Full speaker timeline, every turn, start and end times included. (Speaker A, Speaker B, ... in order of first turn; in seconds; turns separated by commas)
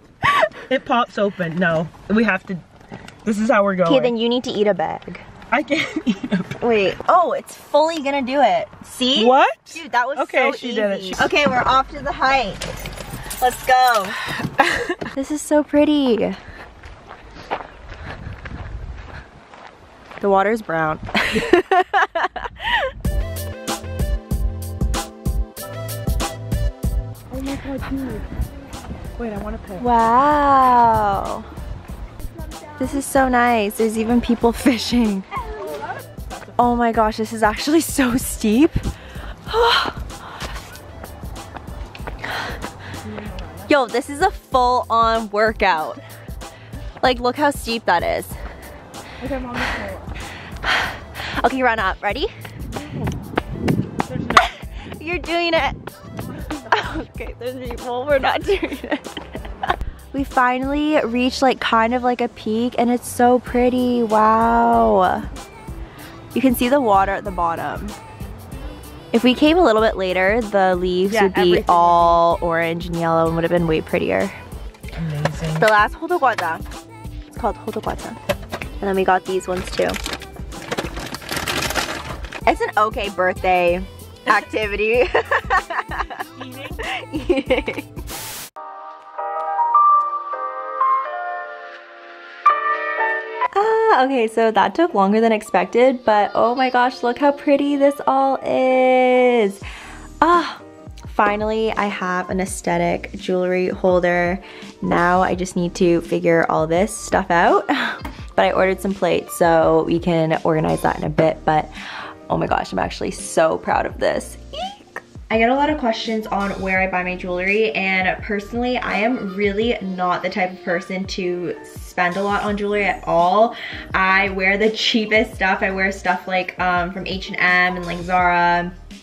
Speaker A: 0.4-2.6, Speaker A: 3.2-4.1, Speaker B: 3.9-5.2, Speaker A: 5.5-6.6, Speaker B: 6.6-12.8, Speaker A: 9.2-11.3, Speaker B: 13.4-14.2, Speaker B: 15.0-16.4, Speaker B: 20.2-22.9, Speaker A: 27.3-28.3, Speaker A: 29.2-29.9, Speaker B: 29.8-31.5, Speaker B: 32.8-35.3, Speaker B: 36.6-38.8, Speaker B: 39.5-40.2, Speaker B: 43.7-46.0, Speaker B: 47.0-48.4, Speaker A: 49.2-50.1, Speaker B: 50.6-52.3, Speaker A: 52.8-53.1, Speaker A: 54.1-54.4, Speaker B: 54.4-55.8, Speaker B: 56.5-65.3, Speaker B: 66.3-68.0, Speaker B: 69.1-74.4, Speaker A: 71.1-72.2, Speaker A: 74.9-75.7, Speaker B: 75.5-76.7, Speaker B: 77.3-78.2, Speaker B: 78.8-80.0, Speaker B: 82.5-87.9, Speaker A: 86.4-86.8, Speaker B: 93.5-99.6, Speaker B: 100.2-111.7, Speaker B: 112.3-128.8